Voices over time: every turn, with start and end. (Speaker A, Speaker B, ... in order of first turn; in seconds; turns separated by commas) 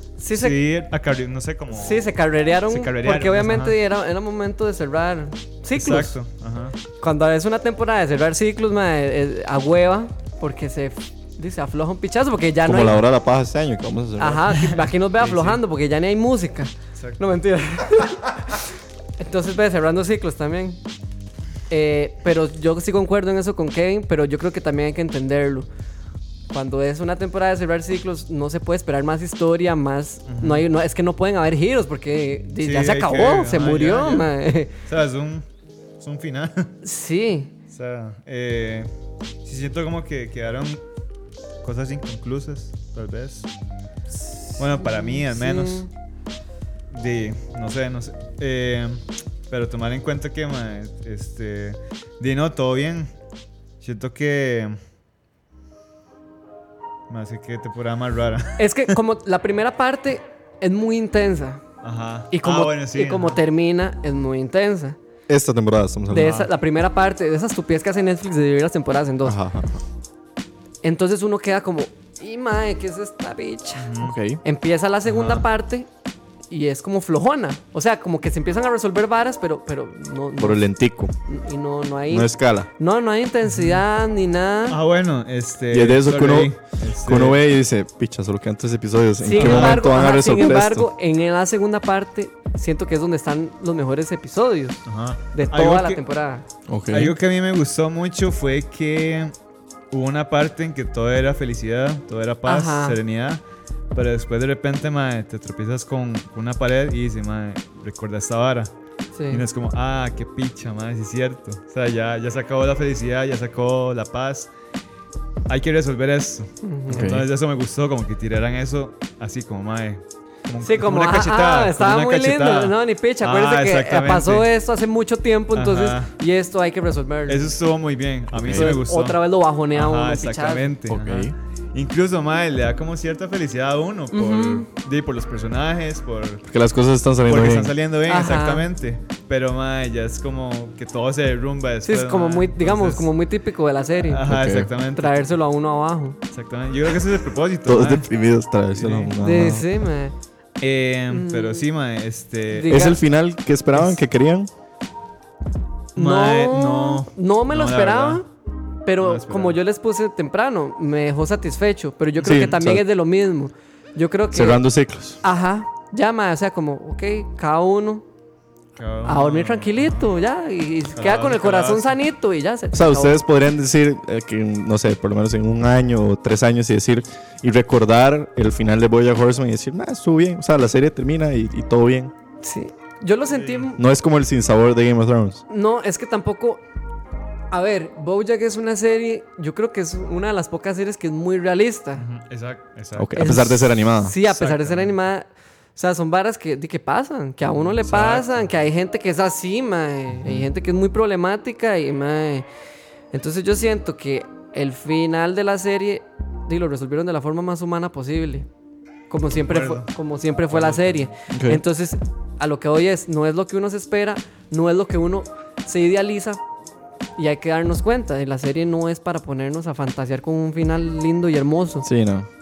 Speaker A: 0.2-0.6, Speaker B: 0.3-2.1, Speaker A: 1.7-6.2, Speaker B: 2.7-3.8, Speaker B: 5.7-6.7, Speaker A: 6.9-13.0, Speaker C: 12.6-14.5, Speaker A: 14.2-18.6, Speaker B: 15.2-15.6, Speaker A: 19.2-20.8, Speaker A: 21.7-25.7, Speaker A: 26.5-34.7, Speaker B: 30.3-30.6, Speaker B: 32.6-34.3, Speaker B: 34.8-35.4, Speaker B: 36.0-36.7, Speaker A: 36.8-37.5, Speaker B: 37.7-38.9, Speaker B: 39.4-40.8, Speaker B: 41.6-43.5, Speaker B: 44.6-45.9, Speaker A: 44.6-45.9, Speaker B: 46.9-53.1, Speaker B: 53.8-54.8, Speaker B: 57.1-58.9, Speaker A: 58.6-61.6, Speaker B: 61.8-63.4, Speaker A: 62.3-65.0, Speaker C: 65.3-66.4, Speaker A: 66.1-69.4, Speaker B: 66.1-66.5, Speaker C: 69.2-69.8, Speaker A: 70.8-73.9, Speaker B: 73.8-74.2, Speaker C: 74.0-74.4, Speaker A: 74.4-75.9, Speaker B: 75.0-75.5, Speaker A: 76.5-80.6, Speaker C: 80.4-81.1, Speaker A: 81.2-84.8, Speaker C: 82.1-82.7, Speaker B: 83.5-83.8, Speaker B: 84.7-87.4, Speaker C: 85.7-90.9, Speaker A: 89.2-96.4, Speaker B: 89.3-89.8, Speaker B: 94.8-96.0, Speaker C: 96.7-97.2, Speaker B: 96.9-99.3, Speaker B: 99.9-103.4, Speaker A: 102.5-103.0, Speaker B: 103.9-108.7, Speaker A: 109.1-109.4, Speaker B: 109.3-114.5, Speaker B: 115.5-124.5, Speaker A: 116.6-117.1, Speaker C: 116.9-117.3, Speaker A: 120.6-127.5, Speaker B: 125.5-126.1, Speaker B: 127.3-129.2, Speaker C: 128.3-128.8, Speaker A: 128.4-130.7, Speaker B: 129.7-136.4, Speaker C: 130.9-131.3, Speaker A: 134.1-134.7, Speaker C: 136.5-137.7, Speaker B: 137.2-143.1, Speaker A: 138.1-138.7, Speaker A: 141.8-144.2, Speaker B: 144.0-145.2, Speaker C: 144.2-144.7, Speaker A: 144.9-146.2, Speaker B: 146.3-148.1, Speaker C: 147.7-149.7, Speaker B: 148.7-149.2, Speaker A: 149.2-150.1, Speaker B: 150.6-152.8, Speaker A: 151.1-151.6, Speaker A: 152.5-153.0, Speaker C: 152.7-154.5, Speaker A: 155.9-158.3, Speaker B: 155.9-158.2, Speaker A: 158.8-164.6, Speaker B: 159.0-159.6, Speaker C: 162.2-162.8, Speaker C: 164.3-165.2, Speaker A: 165.2-168.0, Speaker B: 168.8-170.1, Speaker A: 169.0-173.2, Speaker B: 170.9-171.9, Speaker C: 172.7-182.1, Speaker A: 182.4-183.8, Speaker B: 183.3-183.7, Speaker C: 183.8-185.4, Speaker A: 185.5-186.6, Speaker A: 187.5-192.0, Speaker B: 192.0-193.6, Speaker C: 192.9-194.2, Speaker A: 193.2-202.5, Speaker B: 194.2-194.9, Speaker B: 197.7-198.4, Speaker A: 203.1-208.5, Speaker A: 209.1-216.4, Speaker B: 209.4-209.9, Speaker B: 210.5-211.1, Speaker C: 211.3-211.6, Speaker A: 217.2-221.8, Speaker C: 221.8-222.3